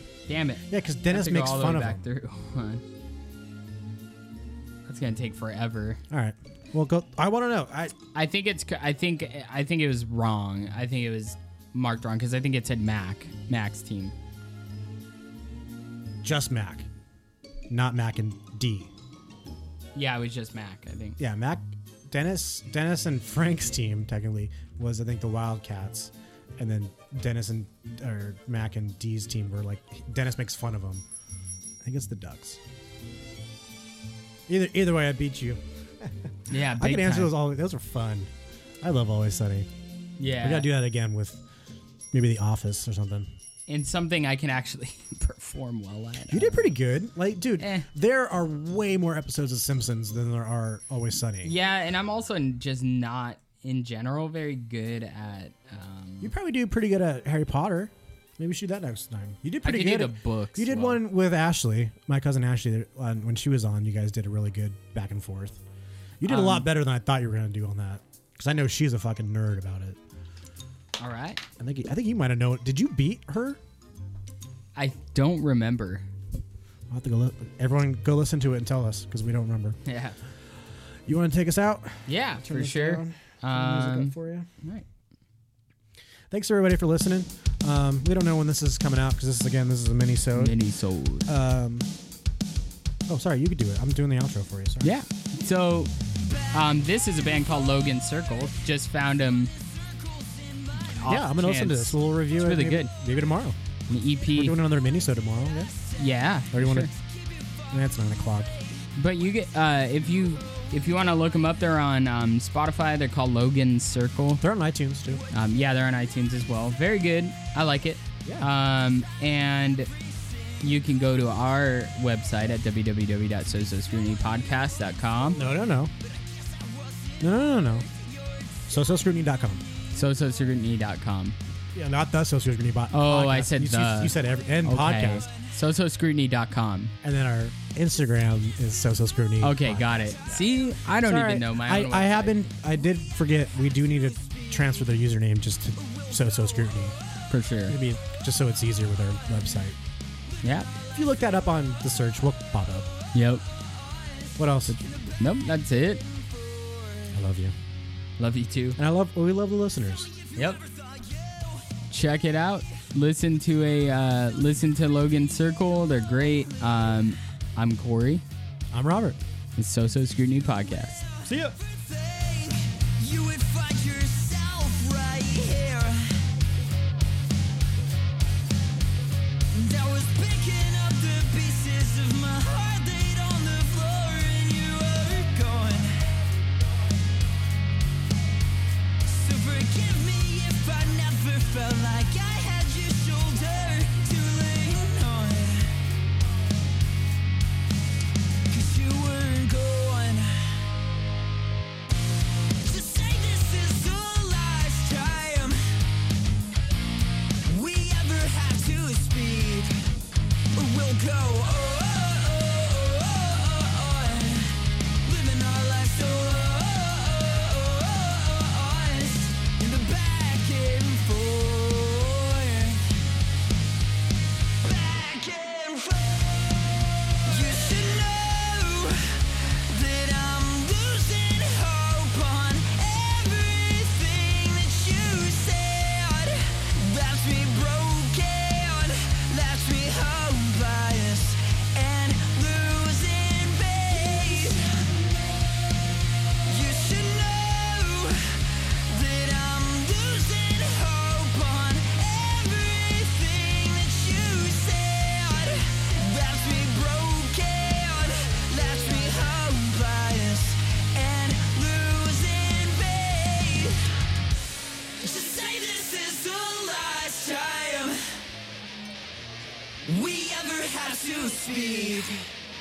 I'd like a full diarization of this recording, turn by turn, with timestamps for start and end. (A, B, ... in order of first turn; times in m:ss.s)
0:00.3-0:02.8 A
0:00.7-0:02.0 B
0:04.8-0:06.0 A
0:06.1-0:07.9 B
0:08.1-0:14.1 A
0:16.2-0:16.9 B
0:17.7-0:18.9 B
0:19.9-0:21.2 A
0:21.2-0:31.0 B
0:31.8-0:32.6 B
0:34.5-0:38.3 B
0:36.5-0:37.3 A
0:38.8-0:39.7 B
0:40.2-0:40.7 A
0:40.4-0:41.4 B
0:42.1-0:43.3 B
0:43.7-0:46.7 A
0:46.3-0:51.5 B
0:47.6-0:47.9 A
0:51.4-0:56.3 A
0:56.2-1:05.6 B
0:59.6-1:01.0 A
1:06.2-1:10.0 B
1:06.2-1:06.7 A
1:11.0-1:11.4 A
1:11.6-1:13.6 B
1:14.8-1:16.0 A
1:16.9-1:19.8 B
1:19.8-1:20.2 A
1:21.1-1:24.5 B
1:22.1-1:24.8 A
1:26.3-1:30.6 B
1:30.3-1:31.3 A
1:31.3-1:31.9 B
1:33.1-1:35.0 B
1:34.8-1:39.5 A
1:40.8-1:42.9 A
1:41.0-1:43.6 B
1:43.9-1:44.6 A
1:44.3-1:45.8 B
1:46.0-1:46.9 A
1:46.5-1:46.9 B
1:47.7-1:48.5 B
1:49.0-1:54.4 A
1:54.4-1:55.2 B
1:55.3-1:59.9 A
2:00.6-2:05.4 A
2:05.3-2:05.9 B
2:07.2-2:07.9 B
2:08.7-2:09.7 B
2:09.9-2:11.4 A
2:11.7-2:15.3 B
2:12.9-2:16.9 A
2:17.0-2:20.5 B
2:19.4-2:22.4 A
2:21.0-2:26.9 B
2:27.3-2:27.8 A
2:27.7-2:29.8 B
2:30.4-2:30.7 A
2:30.9-2:32.9 B
2:33.1-2:33.4 A
2:34.4-2:34.8 B
2:34.8-2:36.1 A
2:37.1-2:37.5 B
2:38.2-2:38.8 A
2:38.8-2:40.1 B
2:40.3-2:40.6 A
2:41.9-2:48.2 A
2:48.7-2:49.2 B
2:49.6-2:51.0 A
2:51.2-2:51.6 B
2:52.0-2:56.2 C
2:59.5-3:06.0 C
3:09.1-3:15.7 C
3:18.5-3:20.3 C
3:22.6-3:25.6 C
3:27.4-3:29.7 C
3:30.5-3:42.9 C
3:44.6-3:46.6 C
3:47.1-4:04.9 C
4:06.4-4:23.8 C
4:25.0-4:28.0 C
4:29.8-4:32.2 C